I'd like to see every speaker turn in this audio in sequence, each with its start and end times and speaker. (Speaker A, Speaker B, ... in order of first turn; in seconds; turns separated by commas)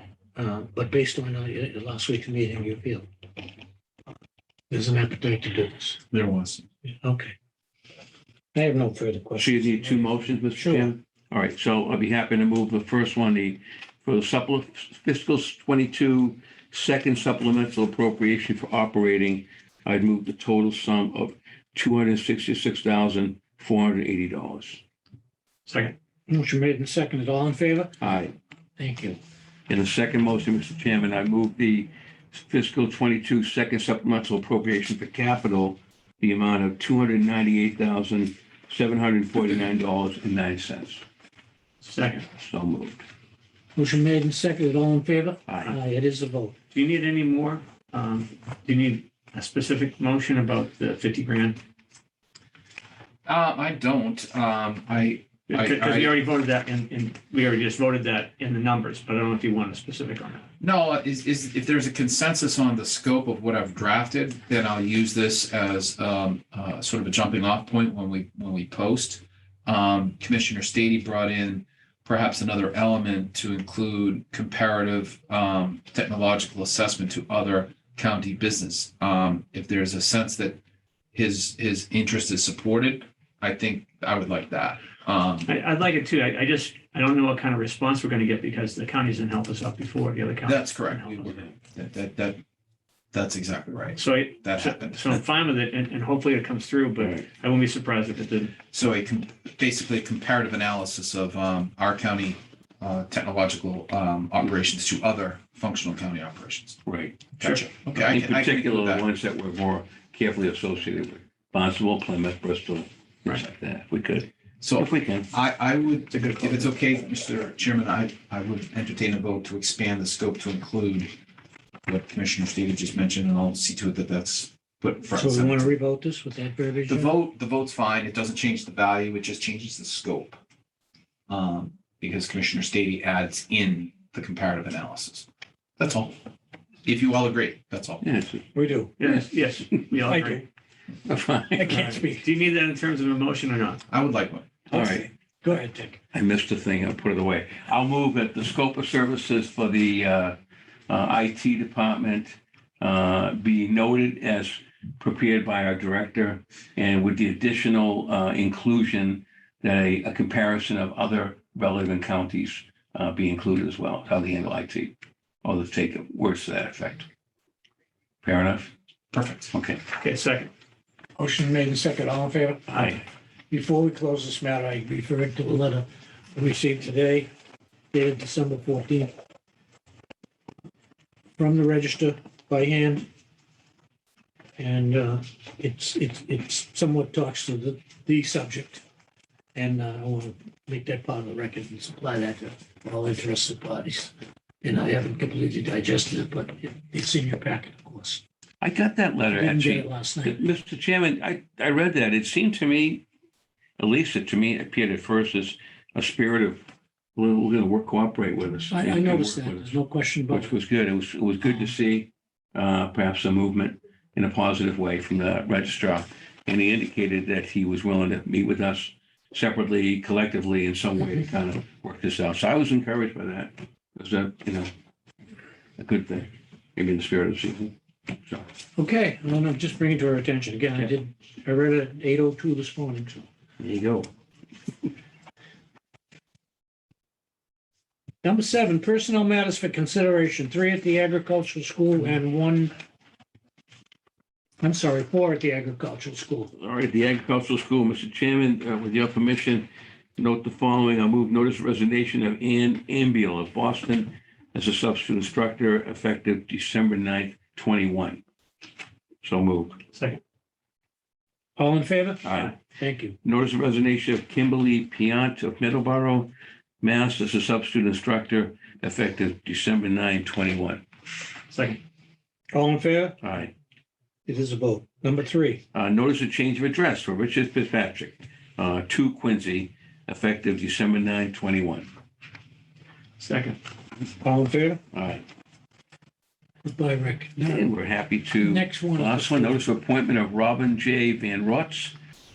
Speaker A: 0.4-3.1, Speaker A: 4.7-6.0, Speaker B: 6.1-6.7, Speaker A: 6.9-7.3, Speaker A: 8.5-10.9, Speaker C: 9.4-24.8, Speaker D: 25.7-25.9, Speaker A: 26.3-28.0, Speaker C: 28.0-28.3, Speaker A: 28.8-29.2, Speaker C: 29.7-41.0, Speaker D: 41.8-42.3, Speaker C: 42.4-43.0, Speaker A: 43.8-46.5, Speaker C: 45.5-45.7, Speaker D: 46.7-51.6, Speaker B: 53.2-56.1, Speaker D: 55.5-60.5, Speaker B: 60.6-80.6, Speaker B: 81.1-85.5, Speaker D: 85.5-91.3, Speaker B: 90.5-92.4, Speaker B: 93.1-95.2, Speaker D: 94.0-98.5, Speaker B: 98.7-106.8, Speaker C: 106.9-115.3, Speaker B: 107.4-109.1, Speaker B: 114.6-121.1, Speaker D: 116.2-116.5, Speaker B: 121.9-125.7, Speaker A: 125.1-127.1, Speaker B: 126.9-130.4, Speaker B: 131.3-136.2, Speaker B: 136.8-138.1, Speaker C: 138.0-138.5, Speaker A: 138.5-139.0, Speaker D: 139.0-140.4, Speaker A: 140.0-140.4, Speaker C: 141.1-141.9, Speaker A: 141.6-142.3, Speaker D: 141.7-143.8, Speaker B: 143.9-144.5, Speaker A: 144.7-146.0, Speaker C: 144.7-145.1, Speaker C: 146.1-150.3, Speaker C: 150.9-167.1, Speaker C: 168.2-168.7, Speaker B: 169.1-169.5, Speaker C: 169.5-169.9, Speaker D: 169.9-170.5, Speaker A: 171.2-173.0, Speaker C: 172.7-173.0, Speaker D: 172.7-173.0, Speaker A: 173.5-177.3, Speaker A: 177.9-179.1, Speaker A: 181.4-183.1, Speaker A: 184.6-188.8, Speaker A: 189.6-198.2, Speaker C: 198.6-203.1, Speaker A: 199.3-200.4, Speaker C: 203.8-206.6, Speaker C: 207.2-209.8, Speaker A: 208.7-210.5, Speaker C: 210.3-224.7, Speaker C: 225.8-227.7, Speaker A: 228.8-233.2, Speaker C: 233.6-234.1, Speaker A: 238.2-242.7, Speaker A: 244.6-246.5, Speaker C: 246.6-258.2, Speaker C: 259.2-259.8, Speaker D: 259.9-260.2, Speaker A: 261.6-263.2, Speaker C: 262.2-262.5, Speaker C: 263.2-270.8, Speaker D: 271.5-271.8, Speaker A: 272.5-273.2, Speaker C: 273.2-273.5, Speaker A: 274.3-275.6, Speaker C: 275.7-281.9, Speaker D: 283.2-283.6, Speaker A: 284.2-284.8, Speaker C: 284.9-285.2, Speaker A: 286.7-287.7, Speaker C: 287.4-292.0, Speaker A: 288.4-289.6